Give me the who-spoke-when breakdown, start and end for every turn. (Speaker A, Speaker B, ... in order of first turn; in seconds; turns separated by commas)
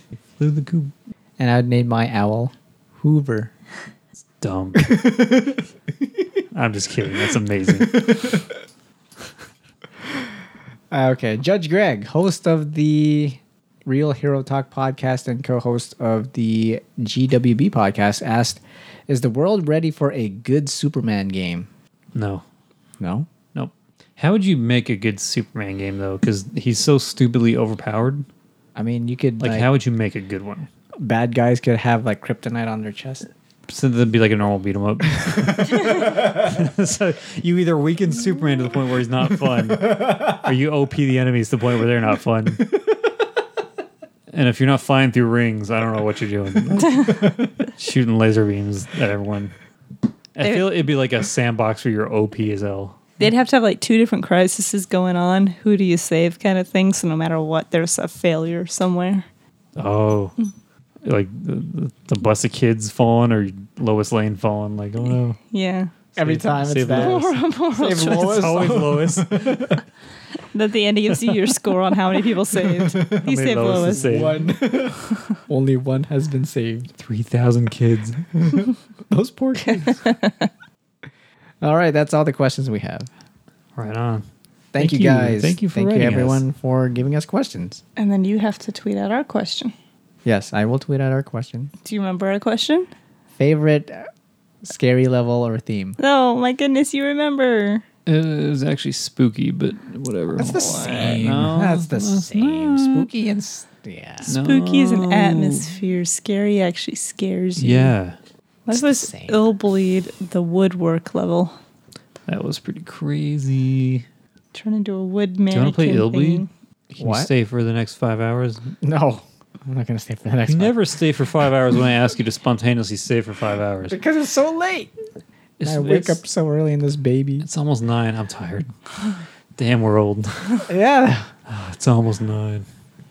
Speaker A: 0.4-0.9, Speaker B: 1.4-3.5, Speaker A: 4.4-5.0, Speaker B: 4.8-5.6, Speaker A: 6.5-8.4, Speaker B: 10.9-21.7, Speaker A: 22.1-22.4, Speaker B: 23.0-23.3, Speaker A: 23.5-28.3, Speaker B: 28.8-29.7, Speaker A: 29.4-30.7, Speaker B: 31.0-33.3, Speaker A: 33.7-42.6, Speaker A: 44.3-49.5, Speaker A: 50.3-53.2, Speaker C: 50.4-50.7, Speaker C: 53.2-59.2, Speaker A: 59.8-60.3, Speaker A: 61.0-65.4, Speaker C: 65.5-65.9, Speaker A: 66.2-69.7, Speaker B: 66.2-69.8, Speaker C: 66.9-68.7, Speaker C: 70.5-74.1, Speaker B: 72.7-73.2, Speaker A: 73.1-74.5, Speaker B: 73.9-76.9, Speaker A: 77.0-78.2, Speaker B: 78.4-80.0, Speaker C: 79.7-80.5, Speaker B: 81.6-83.1, Speaker A: 83.7-84.2, Speaker B: 84.7-87.8, Speaker A: 84.8-86.4, Speaker C: 88.0-89.7, Speaker B: 90.2-91.7, Speaker C: 91.8-92.9, Speaker B: 93.4-94.1, Speaker B: 94.6-96.0, Speaker C: 96.0-97.8, Speaker A: 98.0-103.1, Speaker B: 100.4-104.3, Speaker C: 100.5-101.0, Speaker A: 104.2-105.8, Speaker C: 104.2-107.9, Speaker A: 107.6-108.2, Speaker C: 108.7-111.5, Speaker B: 108.7-109.4, Speaker A: 112.3-114.0, Speaker C: 114.5-116.5, Speaker A: 115.5-118.7, Speaker B: 117.0-117.3, Speaker B: 118.8-120.8, Speaker A: 120.4-124.0, Speaker B: 123.9-124.9, Speaker A: 125.6-126.2, Speaker B: 125.6-127.5, Speaker A: 127.4-128.7, Speaker A: 129.6-130.6, Speaker B: 130.7-131.3, Speaker A: 131.5-132.7